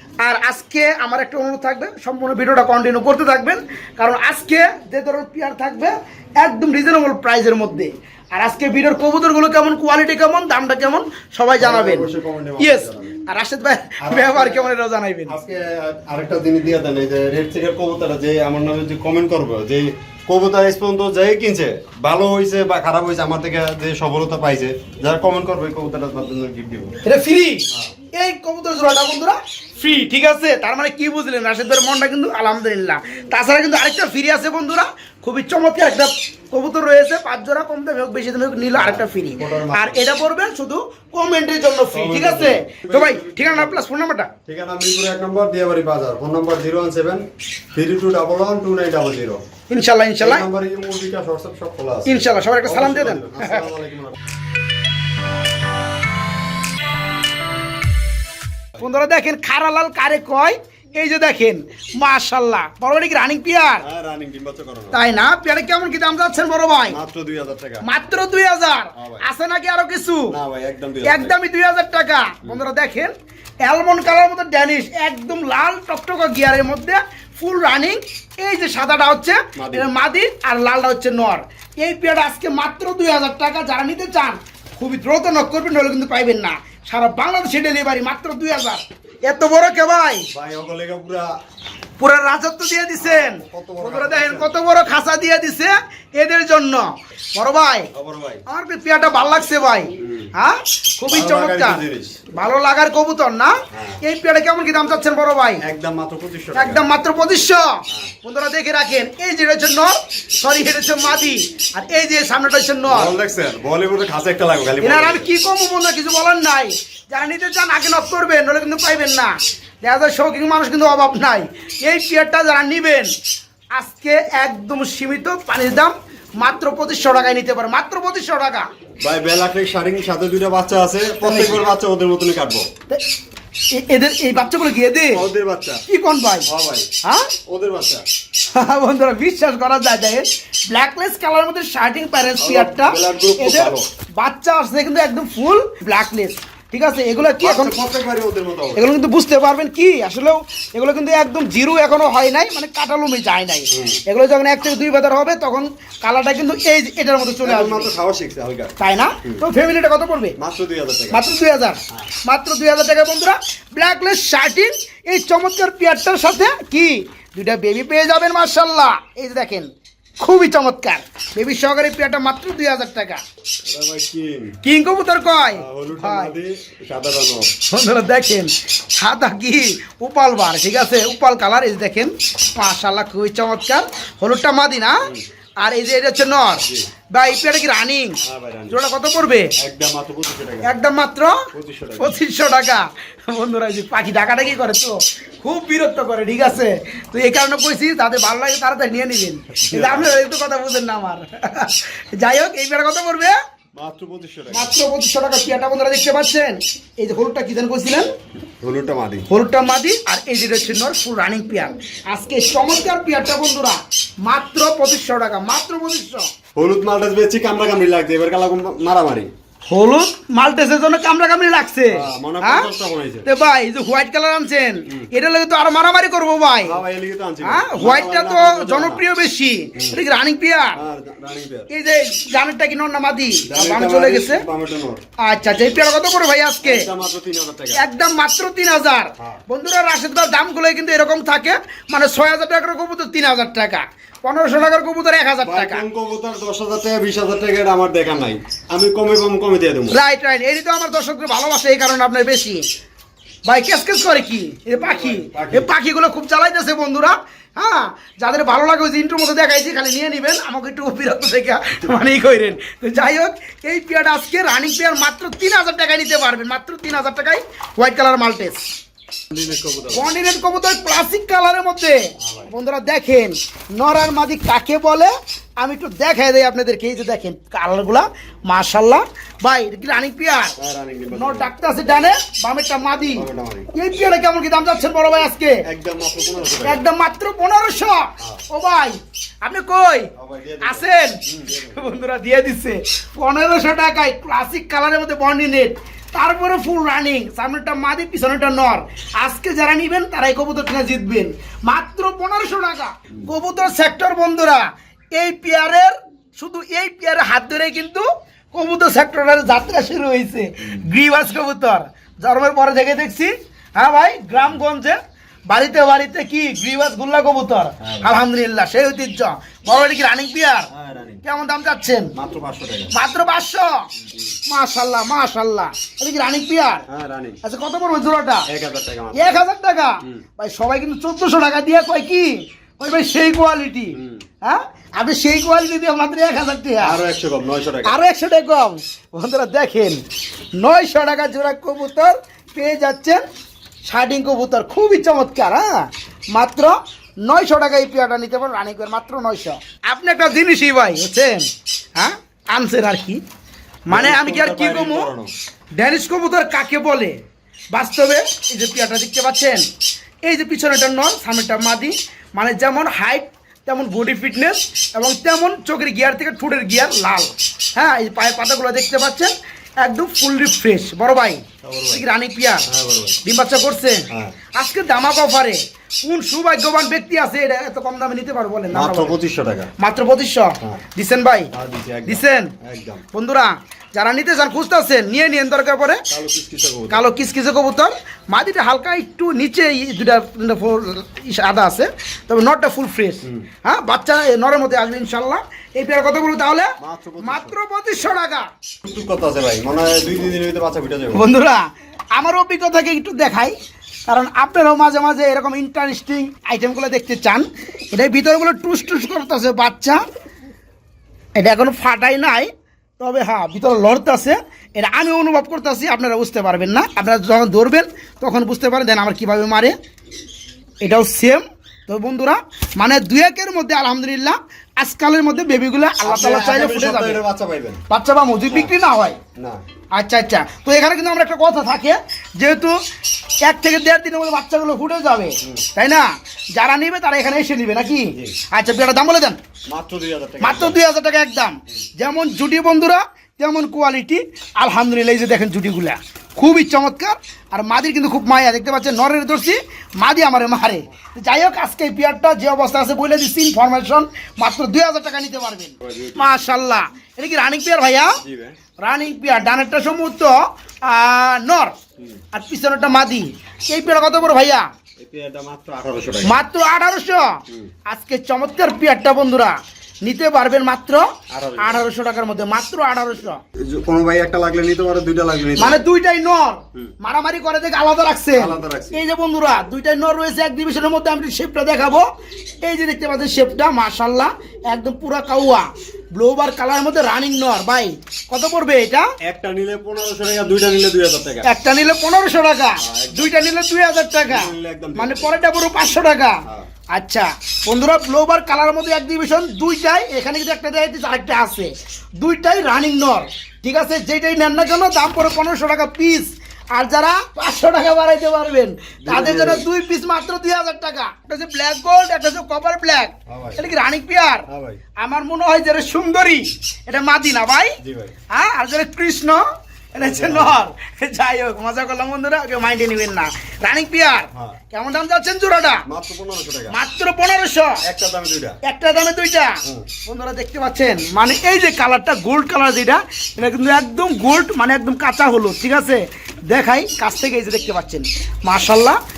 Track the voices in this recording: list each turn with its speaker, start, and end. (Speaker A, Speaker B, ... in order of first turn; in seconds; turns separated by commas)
Speaker A: 0.2-15.3, Speaker B: 11.6-13.1, Speaker B: 14.0-14.7, Speaker B: 15.3-27.0, Speaker A: 27.0-44.3, Speaker B: 38.7-40.0, Speaker B: 41.9-43.8, Speaker B: 44.5-49.4, Speaker A: 49.7-50.5, Speaker B: 50.2-54.2, Speaker A: 52.1-53.7, Speaker A: 58.8-63.8, Speaker B: 63.8-65.0, Speaker A: 64.9-67.0, Speaker B: 66.9-67.8, Speaker A: 67.8-70.3, Speaker B: 69.0-69.2, Speaker B: 70.3-71.3, Speaker A: 71.0-73.1, Speaker A: 73.6-90.3, Speaker B: 79.6-79.9, Speaker B: 90.3-91.3, Speaker A: 92.0-97.9, Speaker B: 93.0-94.6, Speaker B: 97.9-98.4, Speaker A: 98.5-101.8, Speaker B: 100.0-100.3, Speaker B: 101.1-102.2, Speaker A: 102.3-105.6, Speaker B: 103.7-104.0, Speaker B: 105.6-106.8, Speaker A: 106.5-113.1, Speaker B: 112.9-115.3, Speaker A: 114.8-123.1, Speaker A: 123.8-128.7, Speaker B: 129.0-132.7, Speaker A: 131.2-131.6, Speaker A: 133.7-135.2, Speaker B: 135.1-135.8, Speaker A: 135.9-136.5, Speaker B: 136.5-136.9, Speaker A: 137.0-137.3, Speaker B: 137.5-138.1, Speaker A: 138.5-147.8, Speaker B: 142.4-143.9, Speaker B: 147.4-148.8, Speaker A: 148.7-157.9, Speaker B: 153.7-154.0, Speaker B: 157.4-158.7, Speaker A: 158.8-160.3, Speaker B: 160.4-161.2, Speaker A: 161.1-173.2, Speaker B: 173.7-174.6, Speaker A: 174.6-176.3, Speaker B: 175.5-177.5, Speaker A: 177.7-185.0, Speaker A: 185.6-189.5, Speaker B: 188.2-188.8, Speaker B: 189.6-190.7, Speaker A: 190.6-191.5, Speaker B: 191.5-192.2, Speaker A: 192.0-203.3, Speaker B: 199.7-200.2, Speaker B: 203.7-204.7, Speaker A: 204.5-208.1, Speaker B: 208.6-209.3, Speaker A: 209.3-216.3, Speaker B: 216.5-219.3, Speaker A: 219.7-222.7, Speaker B: 221.9-223.3, Speaker A: 223.2-226.8, Speaker B: 226.6-229.0, Speaker A: 227.4-230.8, Speaker B: 229.8-230.0, Speaker B: 230.8-231.7, Speaker A: 231.7-234.4, Speaker B: 233.5-235.0, Speaker A: 235.2-236.9, Speaker B: 236.6-237.9, Speaker A: 237.8-245.8, Speaker B: 245.4-250.0, Speaker A: 249.9-252.6, Speaker A: 253.5-268.7, Speaker B: 254.7-255.7, Speaker B: 269.3-270.1, Speaker A: 269.9-280.6, Speaker B: 272.2-272.5, Speaker B: 280.6-281.5, Speaker A: 281.1-285.6, Speaker B: 283.1-283.7, Speaker B: 285.6-286.8, Speaker A: 286.6-290.1, Speaker B: 290.2-291.8, Speaker A: 290.6-315.0, Speaker B: 314.4-314.6, Speaker A: 315.5-320.7, Speaker B: 317.8-318.2, Speaker B: 320.7-321.2, Speaker A: 321.2-322.1, Speaker B: 322.1-322.9, Speaker A: 322.9-323.9, Speaker A: 324.5-326.9, Speaker B: 326.9-327.4, Speaker A: 327.4-328.5, Speaker B: 328.5-329.4, Speaker A: 329.1-337.0, Speaker B: 334.0-334.2, Speaker B: 336.8-338.0, Speaker A: 337.9-340.0, Speaker A: 340.6-343.2, Speaker A: 343.9-353.2, Speaker A: 353.9-355.1, Speaker B: 353.9-355.3, Speaker A: 355.8-357.2, Speaker A: 357.7-359.6, Speaker A: 360.3-369.3, Speaker A: 369.8-372.6, Speaker B: 371.6-372.0, Speaker B: 372.7-373.2, Speaker A: 373.2-379.2, Speaker B: 378.7-379.7, Speaker A: 379.8-381.5, Speaker B: 381.5-383.0, Speaker A: 382.1-382.5, Speaker A: 383.1-386.1, Speaker B: 386.1-387.1, Speaker A: 386.9-398.5, Speaker B: 396.8-397.6, Speaker B: 398.8-401.2, Speaker A: 401.1-403.5, Speaker A: 404.1-410.0, Speaker A: 411.4-419.7, Speaker A: 420.8-427.2, Speaker B: 426.1-427.8, Speaker A: 427.9-429.2, Speaker B: 429.4-429.6, Speaker A: 429.9-432.8, Speaker A: 433.5-439.4, Speaker B: 439.7-440.8, Speaker A: 440.4-458.1, Speaker B: 455.8-456.3, Speaker B: 458.2-458.6, Speaker A: 458.8-461.8, Speaker A: 462.3-464.6, Speaker B: 465.0-466.4, Speaker A: 466.2-473.4, Speaker B: 471.3-471.8, Speaker B: 473.6-475.8, Speaker A: 475.6-482.1, Speaker B: 478.3-479.0, Speaker A: 482.6-489.1, Speaker B: 489.2-491.5, Speaker A: 491.4-496.4, Speaker B: 492.8-493.4, Speaker B: 494.2-495.4, Speaker A: 496.9-514.5, Speaker B: 509.0-509.7, Speaker B: 513.3-513.7, Speaker B: 514.5-514.8, Speaker A: 515.0-517.8, Speaker B: 517.8-518.1, Speaker A: 518.3-525.8, Speaker B: 520.0-520.6, Speaker B: 525.9-526.8, Speaker A: 526.7-527.8, Speaker B: 527.8-528.6, Speaker A: 528.6-539.0